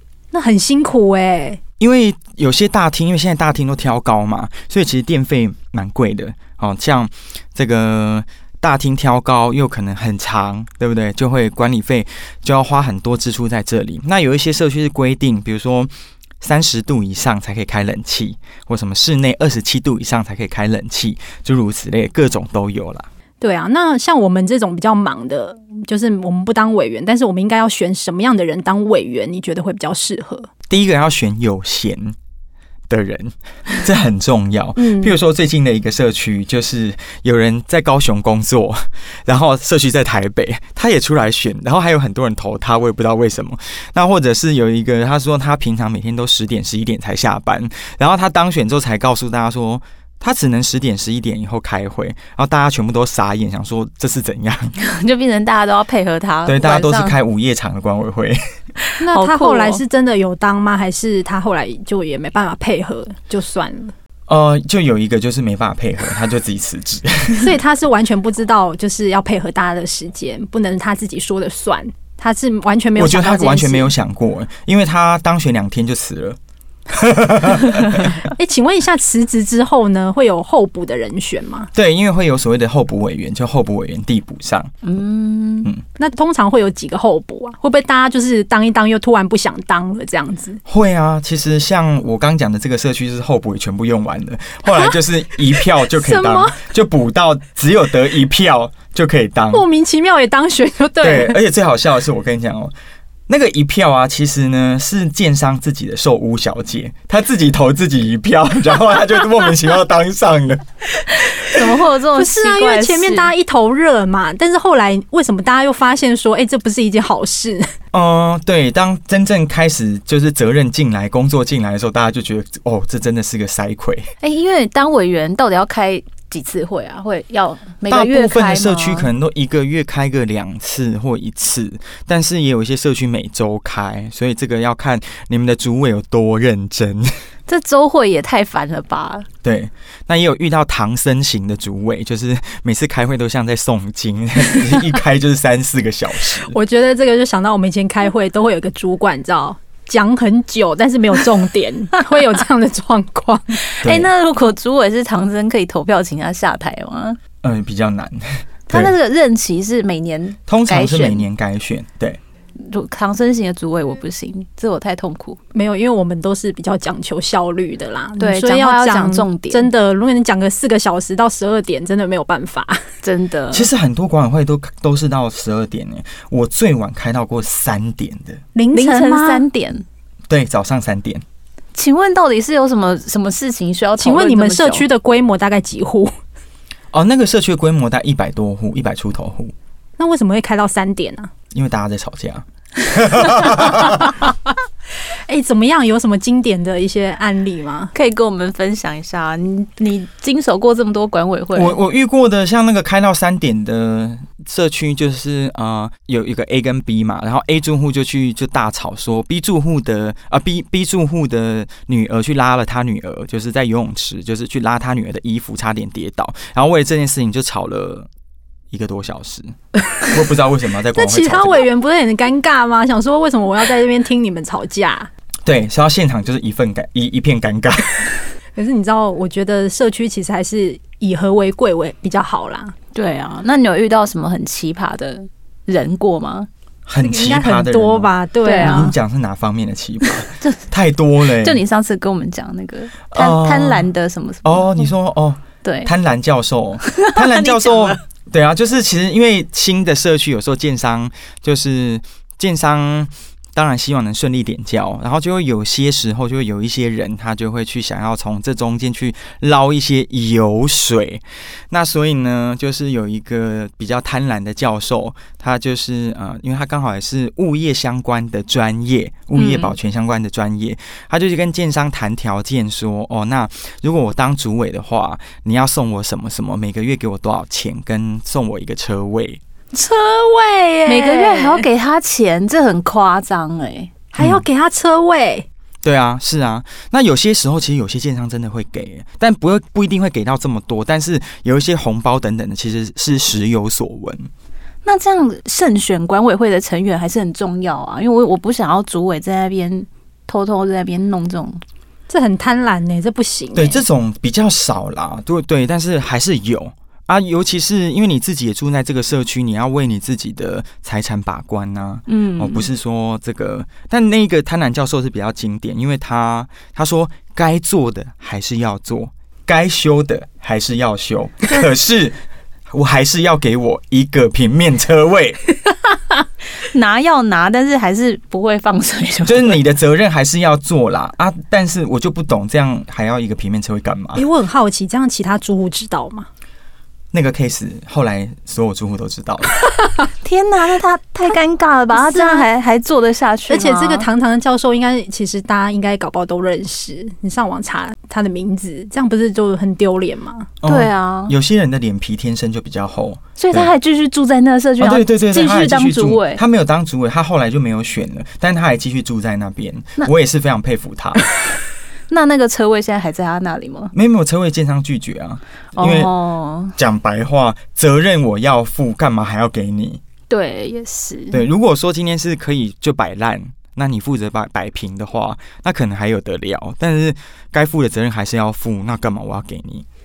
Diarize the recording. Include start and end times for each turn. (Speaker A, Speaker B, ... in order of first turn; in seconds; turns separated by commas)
Speaker A: 0.3-1.6, Speaker B: 1.8-15.9, Speaker B: 16.4-23.1, Speaker A: 23.4-30.5, Speaker B: 30.7-32.1, Speaker B: 32.9-54.7, Speaker A: 34.8-35.1, Speaker C: 54.8-57.2, Speaker B: 56.5-58.4, Speaker C: 58.8-59.8, Speaker A: 59.0-63.9, Speaker B: 64.3-67.5, Speaker A: 67.4-73.9, Speaker B: 73.0-76.4, Speaker B: 76.9-78.2, Speaker A: 78.4-81.7, Speaker B: 81.7-84.8, Speaker C: 84.8-85.7, Speaker A: 86.0-90.6, Speaker B: 90.7-99.7, Speaker A: 95.6-96.6, Speaker A: 99.5-101.4, Speaker B: 101.0-102.7, Speaker B: 103.3-110.7, Speaker C: 111.3-113.3, Speaker A: 112.2-117.7, Speaker B: 117.9-124.1, Speaker C: 124.2-129.1, Speaker B: 127.9-137.1, Speaker C: 137.5-139.3, Speaker B: 139.4-146.6, Speaker A: 146.5-153.6, Speaker C: 153.7-157.2, Speaker B: 153.8-154.1, Speaker B: 157.4-158.9, Speaker C: 158.7-161.3, Speaker B: 160.5-162.2, Speaker C: 162.6-165.4, Speaker A: 165.5-172.8, Speaker C: 168.2-169.7, Speaker C: 173.0-173.7, Speaker B: 173.5-178.4, Speaker A: 178.6-179.4, Speaker C: 178.7-179.8, Speaker B: 180.3-181.2, Speaker C: 181.7-184.9, Speaker A: 184.0-186.1, Speaker B: 186.9-189.5, Speaker A: 190.0-191.3, Speaker B: 191.5-194.1, Speaker A: 195.3-197.9, Speaker C: 197.9-201.8, Speaker B: 201.5-218.1, Speaker B: 218.7-219.5, Speaker B: 220.1-221.7, Speaker A: 220.9-225.1, Speaker B: 225.5-228.2, Speaker A: 228.6-232.7, Speaker C: 232.9-236.5, Speaker B: 236.9-241.6, Speaker A: 237.0-238.9, Speaker C: 238.4-239.0, Speaker C: 240.0-240.6, Speaker C: 241.2-244.9, Speaker B: 243.1-243.9, Speaker B: 244.4-279.4, Speaker C: 245.6-245.9, Speaker C: 246.8-248.0, Speaker C: 269.3-269.8, Speaker C: 280.4-283.9, Speaker A: 280.8-281.6, Speaker A: 284.1-285.5, Speaker B: 284.2-284.4, Speaker B: 285.8-294.3, Speaker C: 294.9-301.6, Speaker A: 302.1-303.8, Speaker B: 303.6-322.2, Speaker C: 312.1-312.7, Speaker B: 322.7-325.4, Speaker C: 326.6-329.6, Speaker B: 329.2-334.3, Speaker A: 334.2-336.3, Speaker B: 337.1-339.6, Speaker C: 340.2-344.1, Speaker A: 341.9-342.4, Speaker A: 343.5-350.5, Speaker B: 350.6-353.7, Speaker C: 350.6-351.4, Speaker C: 353.4-356.4, Speaker B: 354.8-361.2, Speaker C: 362.1-363.9, Speaker B: 363.9-366.1, Speaker C: 365.8-366.8, Speaker B: 366.8-370.0, Speaker C: 370.3-371.4, Speaker B: 371.3-379.9